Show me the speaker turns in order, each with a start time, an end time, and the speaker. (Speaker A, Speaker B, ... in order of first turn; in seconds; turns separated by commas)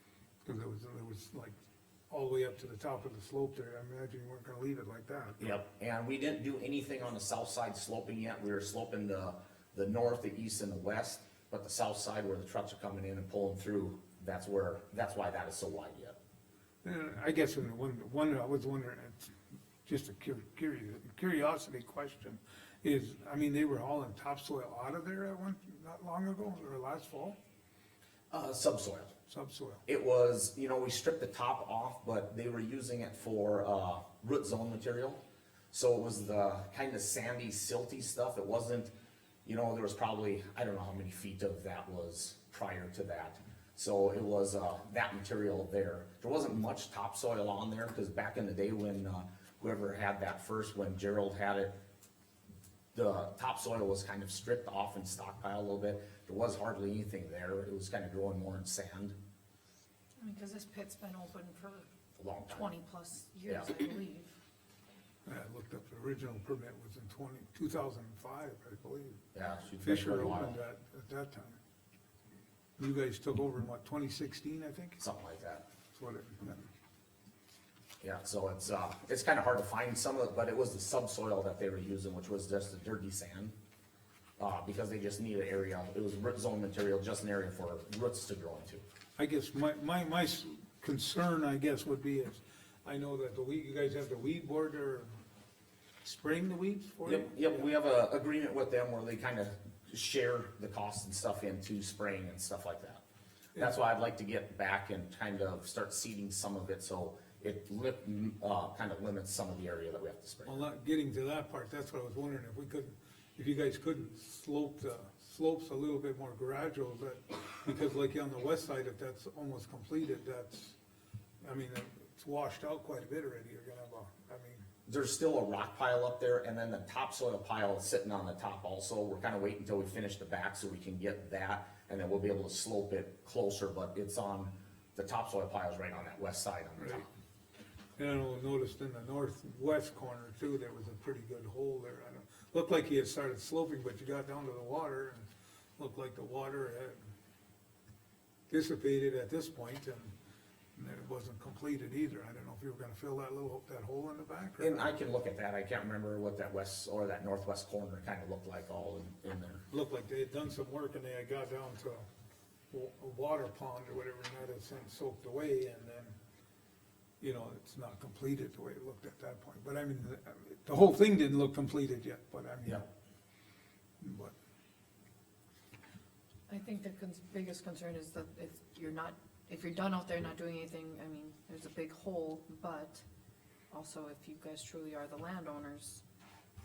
Speaker A: 0.4-1.5, Speaker A: 2.1-5.6, Speaker B: 5.4-16.1, Speaker A: 16.8-27.4, Speaker B: 28.3-29.1, Speaker A: 29.3-29.8, Speaker B: 29.9-38.9, Speaker B: 39.4-51.7, Speaker B: 52.9-59.1, Speaker C: 60.2-61.9, Speaker B: 62.1-62.7, Speaker C: 62.5-64.3, Speaker B: 63.5-63.7, Speaker A: 65.2-69.2, Speaker B: 69.3-70.6, Speaker A: 69.8-71.6, Speaker A: 72.8-75.0, Speaker B: 75.0-75.6, Speaker A: 75.9-76.7, Speaker B: 78.0-83.5, Speaker B: 84.4-88.8, Speaker A: 89.2-95.1, Speaker A: 96.0-97.7, Speaker B: 97.0-103.0, Speaker B: 103.5-110.7, Speaker A: 110.4-120.7, Speaker A: 121.4-124.6, Speaker B: 124.8-137.1, Speaker A: 136.8-137.1, Speaker A: 138.0-147.0, Speaker A: 148.5-150.1, Speaker A: 150.8-154.9, Speaker B: 154.6-159.6, Speaker A: 159.7-162.1, Speaker A: 162.7-166.2, Speaker A: 167.2-172.8, Speaker A: 174.0-174.3, Speaker C: 176.5-183.0, Speaker C: 183.7-186.0